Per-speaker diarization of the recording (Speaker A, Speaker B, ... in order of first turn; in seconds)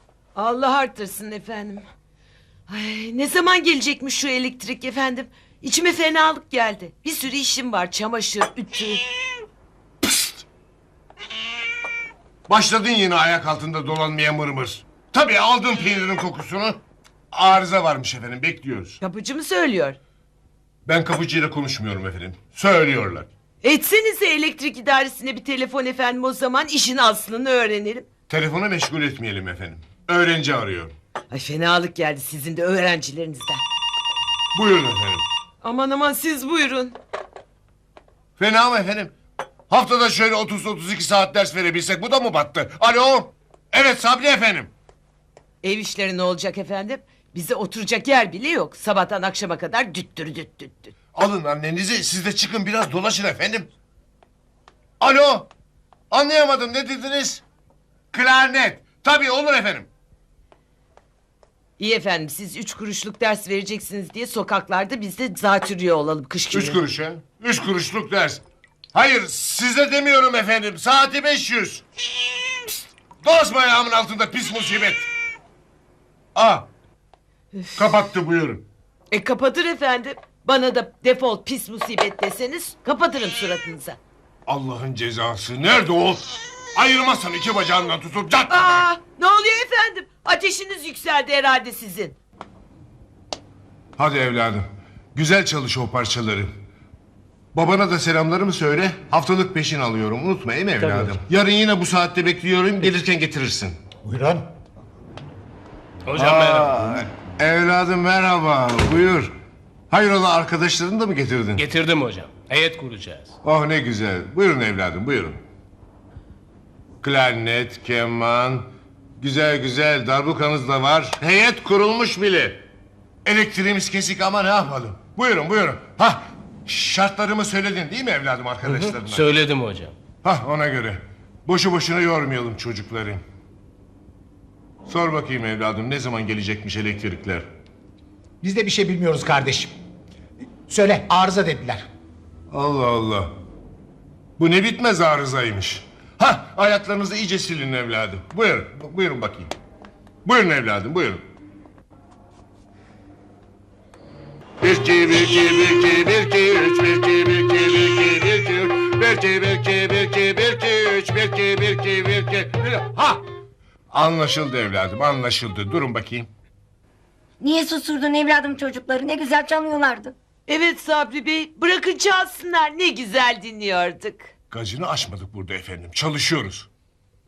Speaker A: 0.3-1.9, 2.7-9.1, 19.0-20.0, 23.6-28.1, 31.3-33.6, 35.6-37.0, 45.6-50.9, 61.8-66.8, 77.5-77.8, 79.1-84.0, 88.5-92.2, 170.5-174.3
Speaker B: 12.5-16.8, 17.3-19.0, 20.9-23.3, 28.3-30.9, 34.5-35.2, 38.4-39.1, 39.7-44.7, 51.1-53.7, 55.0-55.5, 56.1-57.4, 58.1-59.9, 66.5-68.4, 68.9-71.8, 73.2-75.1, 76.3-76.7, 77.8-78.6, 84.5-88.8, 94.0-96.5, 97.5-103.8, 106.1-109.3, 109.9-111.7, 113.4-115.4, 117.0-118.7, 119.2-122.6, 123.2-129.3, 130.2-133.2, 134.8-137.5, 142.5-143.3, 144.4-149.5, 150.2-151.2, 154.6-163.2, 163.9-166.3, 174.5-176.7
Speaker C: 104.0-104.4, 138.4-139.7, 140.7-141.8
Speaker D: 106.1-106.8, 111.5-113.3, 128.6-129.9
Speaker E: 167.4-170.1